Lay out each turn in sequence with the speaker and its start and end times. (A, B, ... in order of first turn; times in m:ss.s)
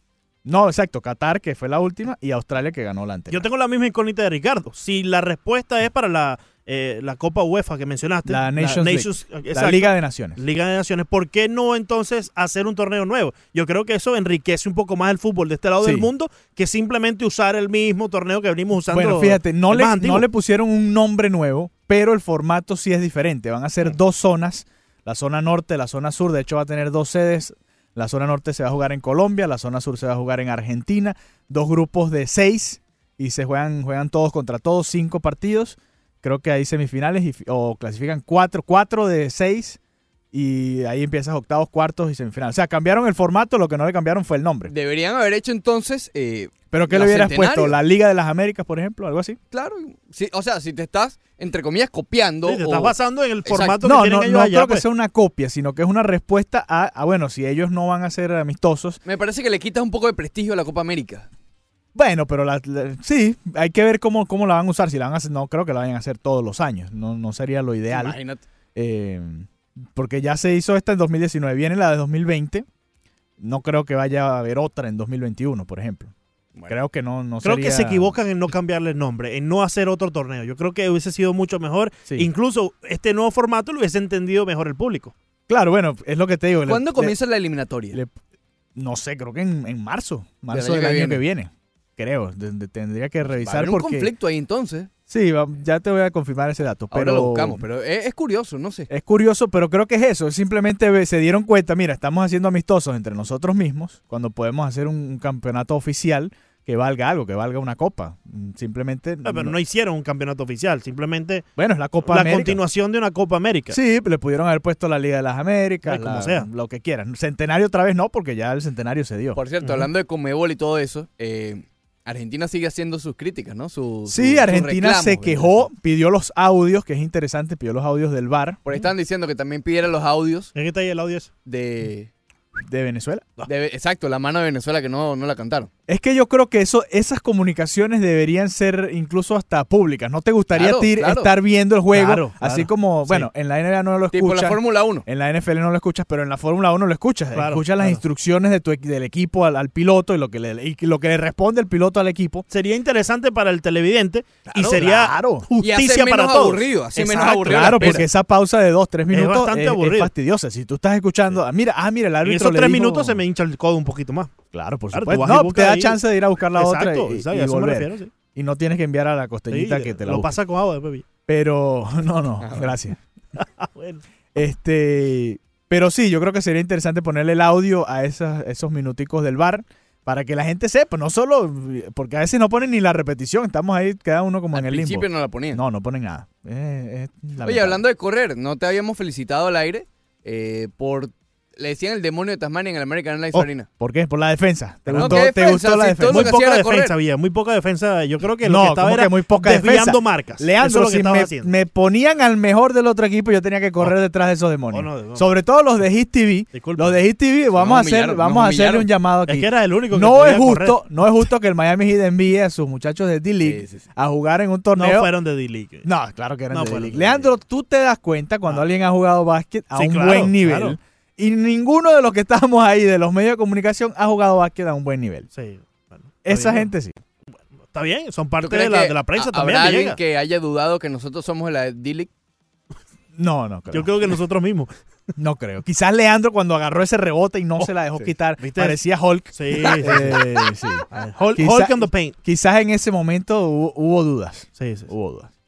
0:00.4-0:03.5 A
0:03.3-0:20.2 B
0:08.2-0:10.4 A
0:15.8-0:16.1 A
0:18.9-0:39.8 A
0:40.3-0:44.7 A
0:44.7-0:47.8 C
0:46.7-0:49.4 A
0:49.5-0:52.9 C
0:52.4-0:54.8 B
0:53.4-0:53.8 C
0:53.8-0:59.0 A
0:59.0-1:01.3 C
1:01.9-1:08.2 A
1:07.9-1:08.4 C
1:08.7-1:12.6 A
1:13.4-1:16.1 A
1:16.7-1:18.2 A
1:17.4-1:25.1 B
1:25.5-1:27.1 A
1:26.7-1:28.0 C
1:28.7-1:34.1 A
1:30.5-1:31.2 C
1:33.3-1:34.9 C
1:35.1-1:37.6 A
1:36.9-1:38.9 C
1:38.9-1:49.6 A
1:49.2-1:51.5 B
1:51.6-1:52.6 A
1:52.0-1:53.8 B
1:53.7-1:59.4 A
1:55.8-1:56.5 B
1:59.3-2:05.7 C
2:04.1-2:08.6 A
2:08.6-2:10.5 C
2:10.5-2:11.3 B
2:11.4-2:12.1 C
2:12.6-2:13.4 A
2:13.4-2:15.7 C
2:15.9-2:32.4 A
2:20.5-2:21.3 C
2:21.9-2:23.3 B
2:24.1-2:25.0 C
2:27.3-2:28.0 B
2:32.5-2:38.1 B
2:34.5-2:35.4 A
2:35.6-2:38.0 C
2:37.1-2:43.2 A
2:39.1-2:40.1 B
2:42.2-2:44.3 B
2:44.5-2:50.3 A
2:44.9-2:46.0 B
2:46.5-2:48.1 B
2:49.5-2:51.0 B
2:51.3-2:53.0 A
2:52.4-2:52.6 C
2:53.4-2:54.0 B
2:54.3-3:07.8 A
3:04.5-3:05.6 C
3:07.4-3:13.7 C
3:13.3-3:16.3 A
3:14.9-3:16.9 C
3:14.9-3:15.2 B
3:16.0-3:21.5 B
3:18.4-3:35.1 A
3:24.7-3:25.2 B
3:26.5-3:27.0 B
3:27.6-3:28.9 C
3:29.3-3:30.8 B
3:33.4-3:33.8 C
3:34.7-3:35.9 B
3:35.8-3:45.3 A
3:36.5-3:37.3 B
3:39.7-3:40.8 B
3:45.3-3:46.7 B
3:46.2-3:47.0 A
3:47.7-3:50.0 B
3:48.4-3:52.1 C
3:53.1-3:53.9 A
3:53.7-3:54.7 B
3:55.2-4:05.3 A
3:58.4-3:58.8 B
3:59.3-4:00.3 B
4:00.9-4:02.2 B
4:04.6-4:04.9 B